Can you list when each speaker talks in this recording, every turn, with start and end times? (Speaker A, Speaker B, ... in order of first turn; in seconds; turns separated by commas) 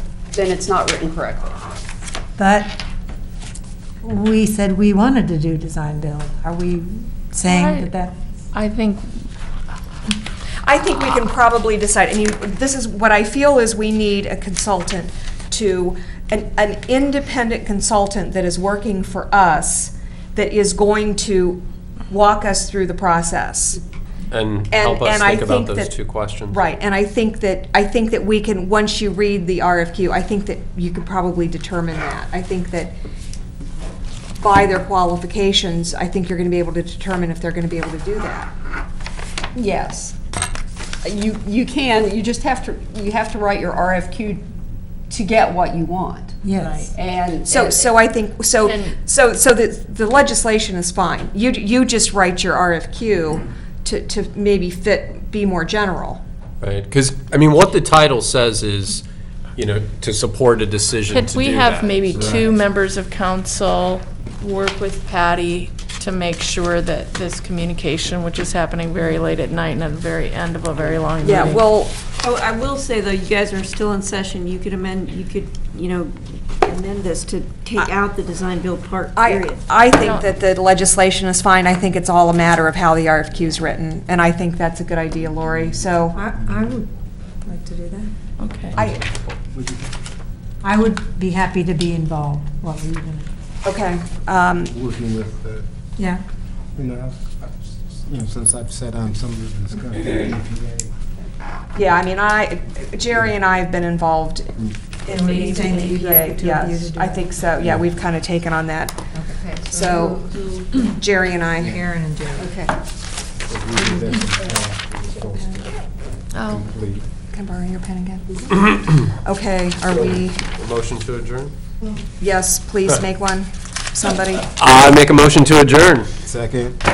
Speaker A: 0.3-1.5, Speaker B: 2.4-2.8, Speaker B: 4.0-8.1, Speaker C: 7.4-7.9, Speaker C: 8.5-9.1, Speaker D: 10.6-23.8, Speaker E: 24.3-26.6, Speaker D: 24.7-32.9, Speaker D: 34.4-38.5, Speaker A: 39.5-40.1, Speaker A: 41.0-44.4, Speaker A: 45.1-47.9, Speaker B: 46.4-46.9, Speaker C: 46.6-46.9, Speaker D: 47.4-56.2, Speaker C: 48.6-48.9, Speaker E: 56.6-59.0, Speaker E: 59.6-62.5, Speaker C: 61.1-71.6, Speaker D: 71.2-71.9, Speaker F: 72.2-79.6, Speaker D: 79.2-86.2, Speaker C: 80.0-80.2, Speaker B: 86.1-86.9, Speaker G: 86.4-86.7, Speaker B: 87.4-88.1, Speaker C: 88.4-88.8, Speaker G: 88.7-89.9, Speaker D: 88.7-89.0, Speaker B: 90.6-93.3, Speaker D: 93.6-94.7, Speaker G: 94.7-95.7, Speaker G: 96.7-100.9, Speaker D: 101.7-104.5, Speaker D: 105.0-109.0, Speaker B: 105.1-107.3, Speaker C: 105.2-105.8, Speaker B: 109.1-109.4, Speaker A: 109.4-110.7, Speaker D: 109.7-111.8, Speaker B: 111.6-112.5, Speaker A: 112.4-112.7, Speaker G: 113.5-115.7, Speaker C: 116.3-116.6, Speaker G: 116.3-117.0, Speaker D: 117.3-120.4, Speaker E: 120.5-121.5, Speaker D: 122.2-124.4, Speaker E: 124.5-126.1, Speaker G: 126.2-126.8